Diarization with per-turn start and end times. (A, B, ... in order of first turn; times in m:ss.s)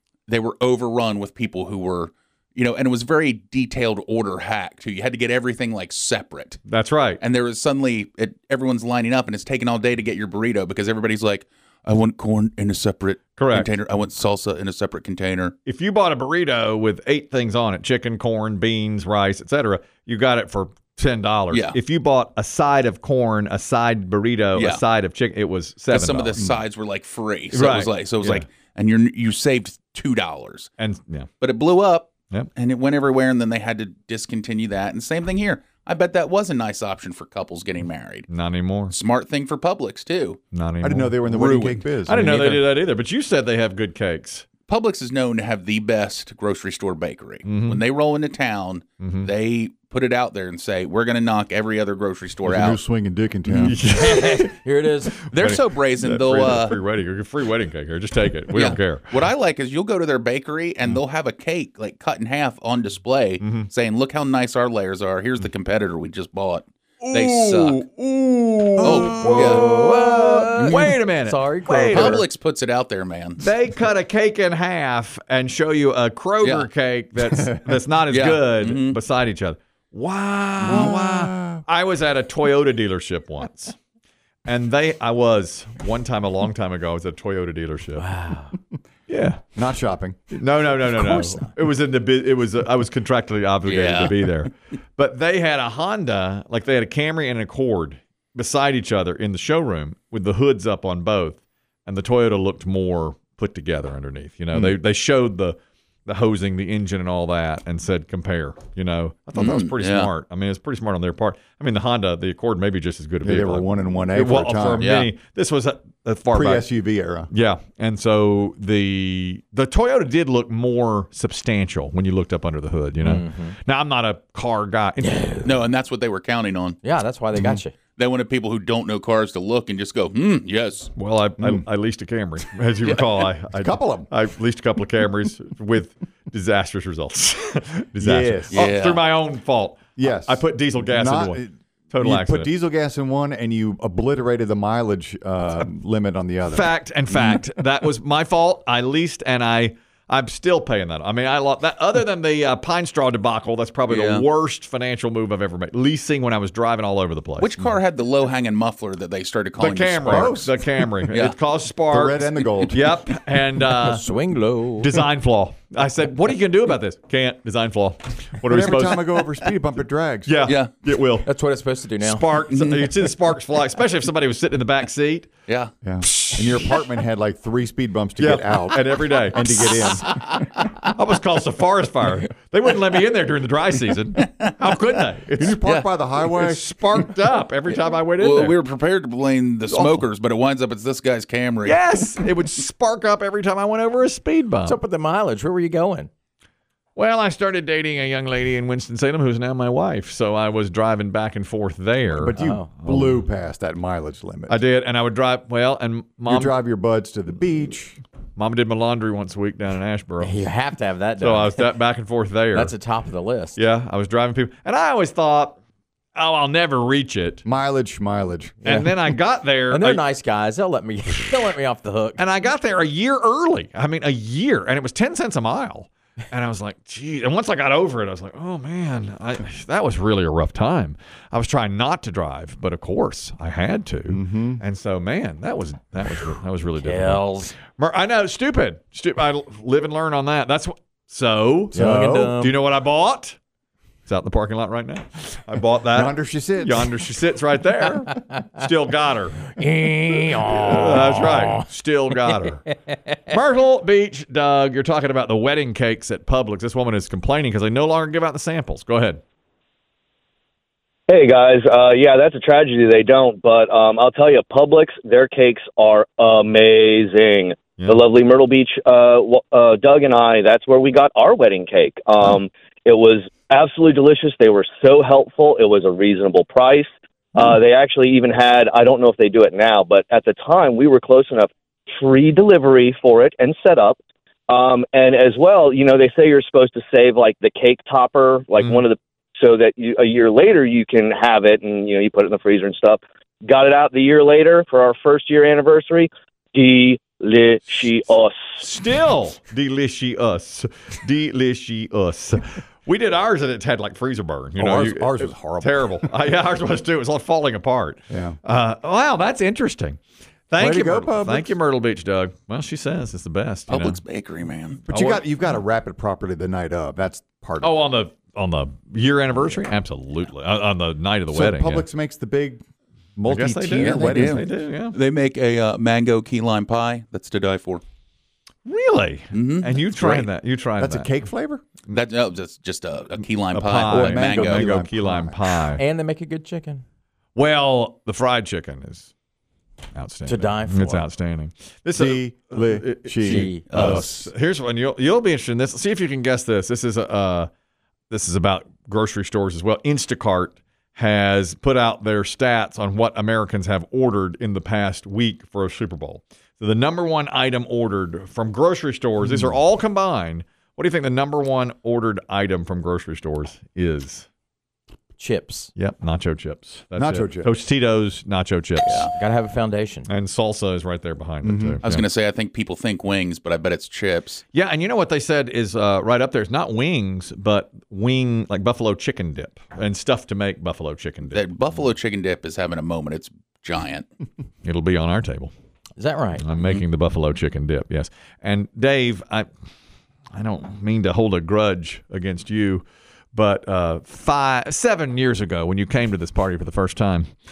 0:00.3-0:06.6 A
0:06.7-0:07.2 B
0:07.2-0:15.5 A
0:13.4-0:13.7 B
0:15.6-0:26.6 B
0:21.5-0:21.8 A
0:24.6-0:24.8 A
0:25.9-0:30.7 A
0:27.5-0:28.4 B
0:30.8-0:31.3 B
0:31.4-0:38.3 A
0:38.3-0:38.9 B
0:38.9-0:40.4 A
0:40.5-0:41.2 B
0:40.8-0:42.3 C
0:41.2-0:42.6 A
0:42.0-0:44.5 B
0:44.7-0:52.8 A
0:47.4-0:47.8 B
0:49.0-0:49.3 B
0:52.4-0:53.8 C
0:53.5-0:54.6 B
0:53.8-0:55.2 D
0:55.2-0:56.8 A
0:55.3-0:59.2 B
0:58.5-1:07.8 A
1:03.4-1:03.7 B
1:07.0-1:09.8 B
1:08.8-1:10.4 C
1:08.8-1:09.7 A
1:09.6-1:12.2 D
1:10.3-1:12.2 B
1:10.6-1:11.0 A
1:11.9-1:13.5 A
1:13.4-1:23.8 B
1:16.4-1:16.7 A
1:17.2-1:17.7 C
1:18.1-1:19.0 A
1:20.6-1:21.6 C
1:24.4-1:28.1 B
1:28.0-1:28.5 D
1:29.1-1:29.5 B
1:29.5-1:30.2 C
1:30.3-1:56.7 B
1:30.9-1:31.5 D
1:33.6-1:34.3 A
1:49.4-1:50.1 A
1:53.2-1:54.9 C
1:54.8-1:55.1 A
1:56.3-1:57.3 C
1:57.3-2:05.4 B
2:03.0-2:03.6 D
2:05.0-2:05.6 D
2:05.4-2:06.8 A
2:06.8-2:07.7 D
2:07.9-2:10.9 A
2:11.0-2:21.4 B
2:11.4-2:11.6 C
2:12.8-2:13.3 A
2:13.5-2:14.1 C
2:18.0-2:18.7 C
2:18.5-2:19.0 A
2:20.0-2:26.7 C
2:21.9-2:22.5 B
2:26.5-2:37.5 B
2:27.1-2:27.4 A
2:33.9-2:34.3 A
2:37.4-2:40.5 A
2:39.6-2:44.0 B
2:40.1-2:40.5 C
2:41.1-2:41.4 A
2:41.9-2:42.9 C
2:43.7-2:45.0 D
2:44.8-2:49.3 B
2:48.4-2:50.3 C
2:50.2-2:51.3 B
2:50.4-2:50.7 A
2:51.2-2:52.4 D
2:52.0-2:55.3 B
2:52.5-2:53.0 A
2:55.5-2:55.7 A
2:55.8-3:00.1 C
2:58.2-3:00.1 B
3:00.9-3:05.6 B
3:05.4-3:06.7 C
3:06.4-3:08.6 B
3:07.7-3:12.0 A
3:09.7-3:10.0 B
3:11.6-3:14.8 B
3:14.6-3:16.1 D
3:17.0-3:23.2 B
3:22.2-3:24.6 C
3:22.4-3:22.7 D
3:24.5-3:26.5 B
3:26.3-3:28.0 C
3:28.4-3:30.5 B
3:30.2-3:31.7 D
3:31.2-3:32.8 B
3:32.5-3:33.6 D
3:33.6-3:35.6 B
3:36.1-3:37.4 B
3:37.4-3:38.6 C
3:38.6-3:40.0 B
3:38.6-3:39.2 D
3:39.7-3:42.2 D
3:42.2-4:03.4 B
3:54.1-3:54.6 C
3:56.8-3:57.6 D
4:01.7-4:02.3 C
4:01.7-4:02.5 D
4:04.0-4:09.5 B
4:05.9-4:06.9 C
4:09.6-4:11.7 D
4:10.4-4:12.6 B
4:13.3-4:19.2 B
4:21.1-4:44.0 E
4:44.5-4:58.6 E
4:48.6-4:48.8 B
4:58.6-5:14.0 B
5:04.6-5:06.0 C
5:08.1-5:08.4 C
5:10.6-5:11.5 C
5:13.7-5:14.8 A
5:14.9-5:17.8 C
5:14.9-5:15.3 B
5:17.6-5:21.8 B
5:21.3-5:22.6 C
5:23.2-5:24.4 C
5:23.3-5:24.9 B
5:23.8-5:27.8 A
5:28.6-5:31.1 B
5:29.3-5:30.3 A
5:30.8-5:31.6 C
5:31.9-5:34.7 A
5:33.5-5:35.8 B
5:33.8-5:35.4 C
5:35.7-5:36.8 D
5:37.3-5:39.1 B
5:39.9-5:47.5 B
5:40.2-5:41.1 D
5:42.0-5:44.1 C
5:43.2-5:44.0 D
5:43.3-5:44.2 A
5:48.1-6:04.3 B
6:05.2-6:05.7 D
6:05.7-6:09.1 B
6:07.0-6:07.5 C
6:08.8-6:09.1 A
6:09.1-6:10.1 D
6:10.0-6:12.1 B
6:11.4-6:11.8 C
6:11.8-6:14.4 A
6:14.5-6:21.4 B
6:21.3-6:24.1 A
6:24.6-6:25.5 B
6:26.0-6:26.4 D
6:26.4-6:29.5 B
6:30.3-6:37.3 B